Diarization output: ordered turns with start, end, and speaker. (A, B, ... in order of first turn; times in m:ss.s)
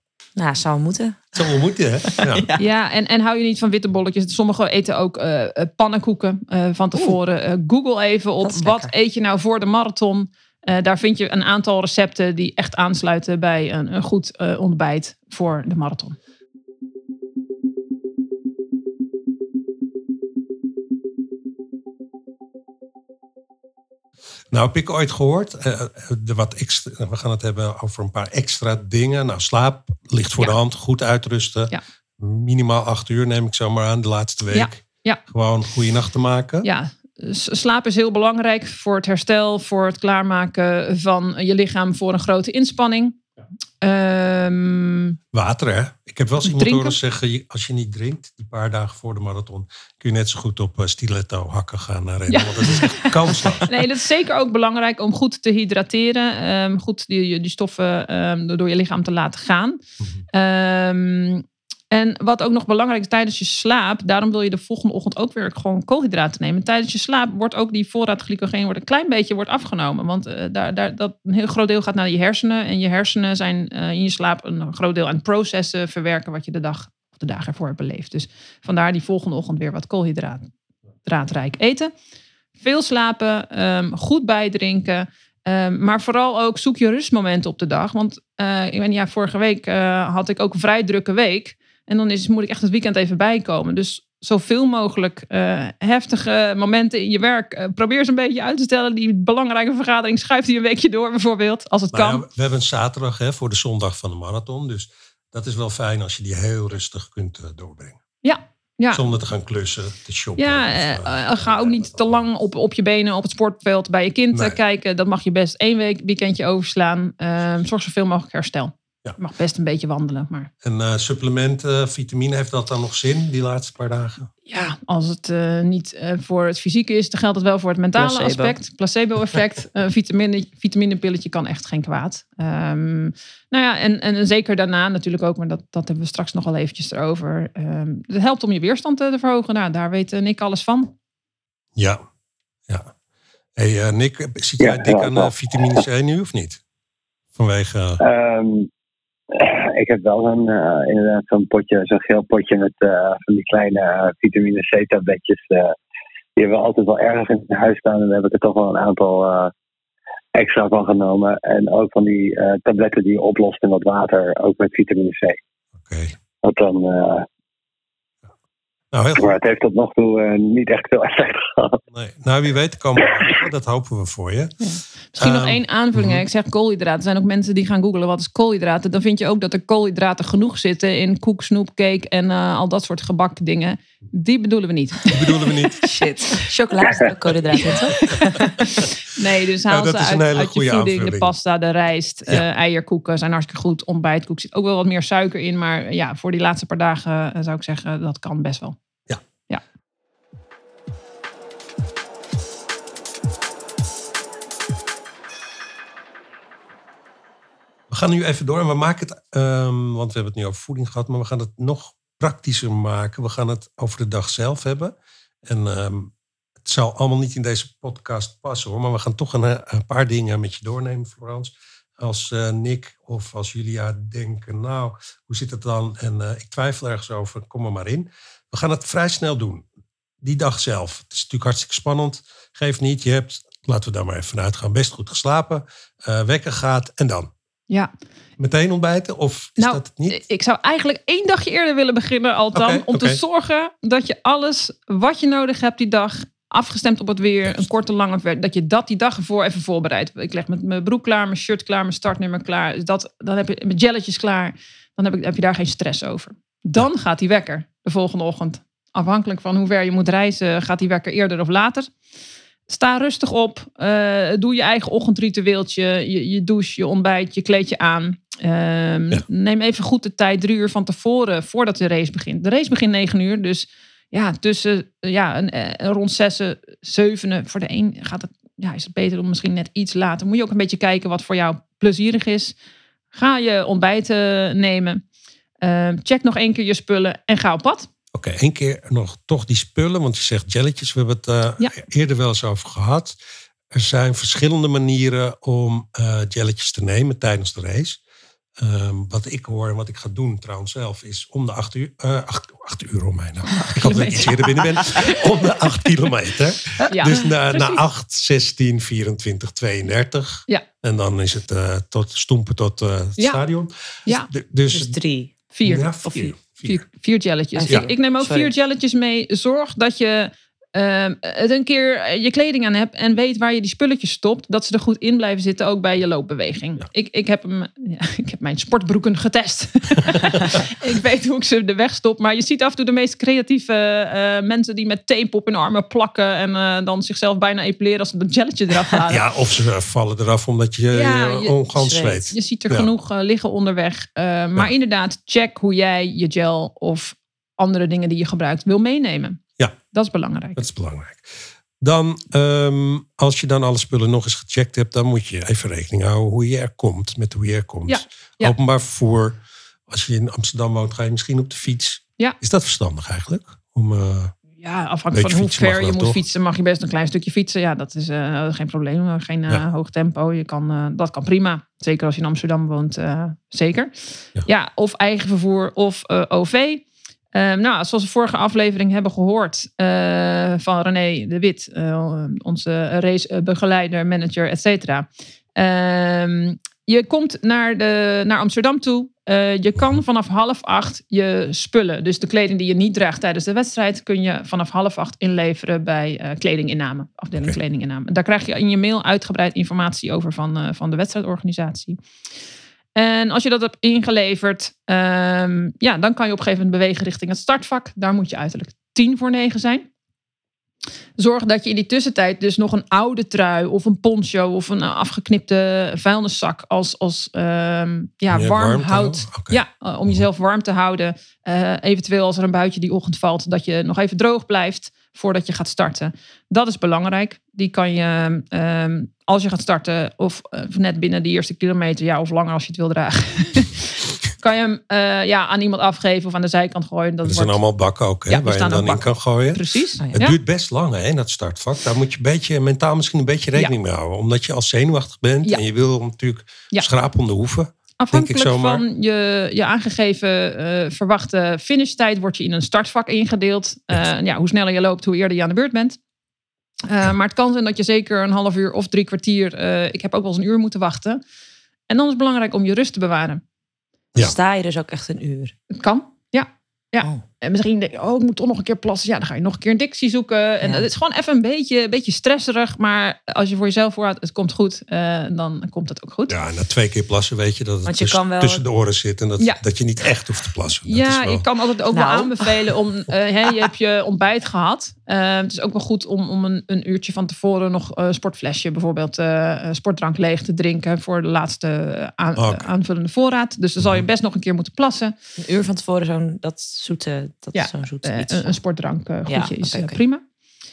0:00.4-0:01.5 A
0:01.4-0:02.5 B
0:02.0-0:02.6 A
0:02.6-0:16.2 C
0:08.4-0:08.9 A
0:24.5-0:36.7 B
0:34.5-0:35.2 C
0:36.6-0:43.2 C
0:43.8-0:45.2 C
0:45.3-0:53.7 B
0:46.4-0:47.0 C
0:52.3-0:59.8 C
1:00.3-1:20.5 C
1:21.0-1:21.9 C
1:22.6-1:42.2 C
1:41.9-1:48.0 B
1:48.2-1:49.0 C
1:48.9-1:52.2 B
1:50.4-2:00.5 C
1:54.3-1:54.6 B
2:00.6-2:04.3 B
2:04.5-2:20.9 C
2:08.0-2:08.6 A
2:21.8-2:22.0 B
2:23.6-2:26.6 B
2:24.6-2:25.8 D
2:27.4-2:28.0 B
2:28.0-2:28.7 D
2:29.3-2:35.8 D
2:36.4-2:39.5 D
2:40.4-2:45.4 D
2:45.8-2:46.2 B
2:46.4-2:47.3 D
2:48.9-2:49.4 B
2:49.2-2:51.8 D
2:51.9-2:54.6 B
2:54.6-3:05.4 C
2:55.2-2:56.2 B
3:05.1-3:05.8 B
3:05.8-3:08.6 A
3:09.1-3:18.8 C
3:09.7-3:11.4 B
3:27.9-3:36.1 B
3:36.6-3:49.7 B
3:50.2-3:57.3 B
3:58.4-4:00.2 B
3:59.6-4:21.9 C
4:02.5-4:03.2 B
4:22.7-4:42.6 C
4:43.1-4:45.0 C
4:45.6-4:47.9 C
4:48.1-4:53.2 B
4:53.7-4:58.0 B
4:58.6-5:15.0 B
5:03.6-5:04.4 C
5:06.9-5:07.8 C
5:14.7-5:15.3 A
5:15.5-5:39.2 C
5:15.6-5:16.8 B
5:17.6-5:18.5 A
5:39.1-5:42.9 B
5:40.9-5:41.7 C
5:41.8-5:42.3 A
5:42.3-5:49.4 C
5:49.9-5:50.6 C
5:50.6-6:04.3 B
5:57.9-5:58.6 C
6:04.6-6:13.9 C
6:05.1-6:06.2 B
6:14.4-6:42.0 C
6:43.0-6:49.9 C
6:51.2-7:17.6 C
6:58.3-7:00.2 B
7:17.2-7:28.8 B
7:18.3-7:20.4 C
7:28.0-7:36.0 C
7:36.9-7:41.2 C
7:41.9-7:43.4 C
7:44.2-7:45.6 A
7:45.7-7:56.4 C
7:56.3-8:01.4 B
7:57.9-7:58.6 A
8:00.9-8:15.1 C
8:01.9-8:02.5 A
8:12.4-8:12.7 B
8:13.8-8:14.0 B
8:15.4-8:18.6 A
8:17.5-8:20.2 C
8:19.3-8:20.0 A